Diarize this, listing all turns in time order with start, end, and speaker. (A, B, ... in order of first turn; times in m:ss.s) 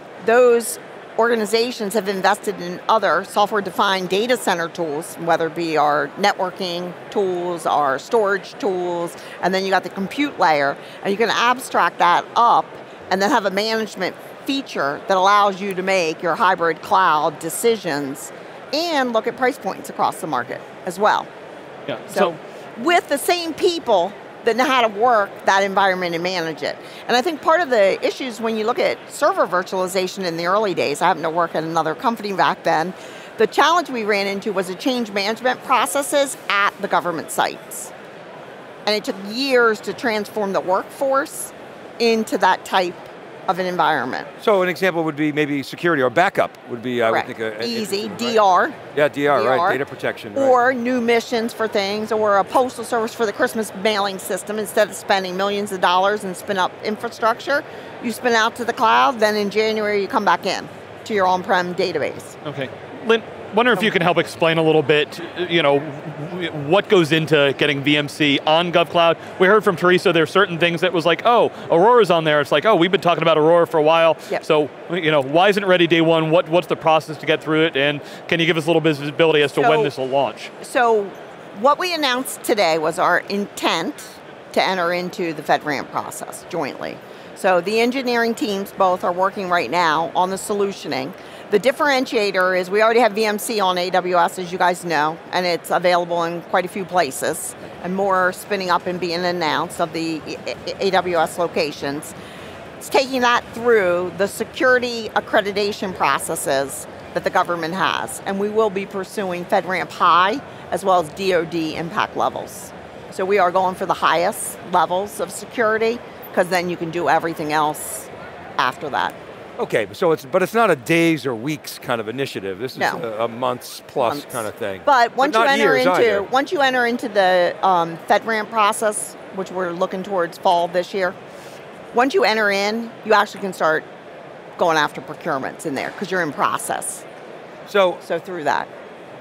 0:00.2-0:21.3 A
0:21.9-0:22.3 B
0:22.1-0:37.9 A
0:38.8-0:44.3 A
0:44.4-0:48.4 C
0:47.0-0:48.8 A
0:48.9-0:50.6 C
0:49.3-0:49.8 A
0:50.3-1:02.4 A
1:02.4-1:20.5 B
1:19.5-1:19.9 A
1:20.6-1:42.1 A
1:42.8-1:59.1 A
1:59.6-2:06.3 C
2:02.8-2:03.0 A
2:04.0-2:11.1 A
2:11.9-2:13.8 A
2:14.6-2:17.0 A
2:17.7-2:18.0 C
2:18.0-2:18.7 A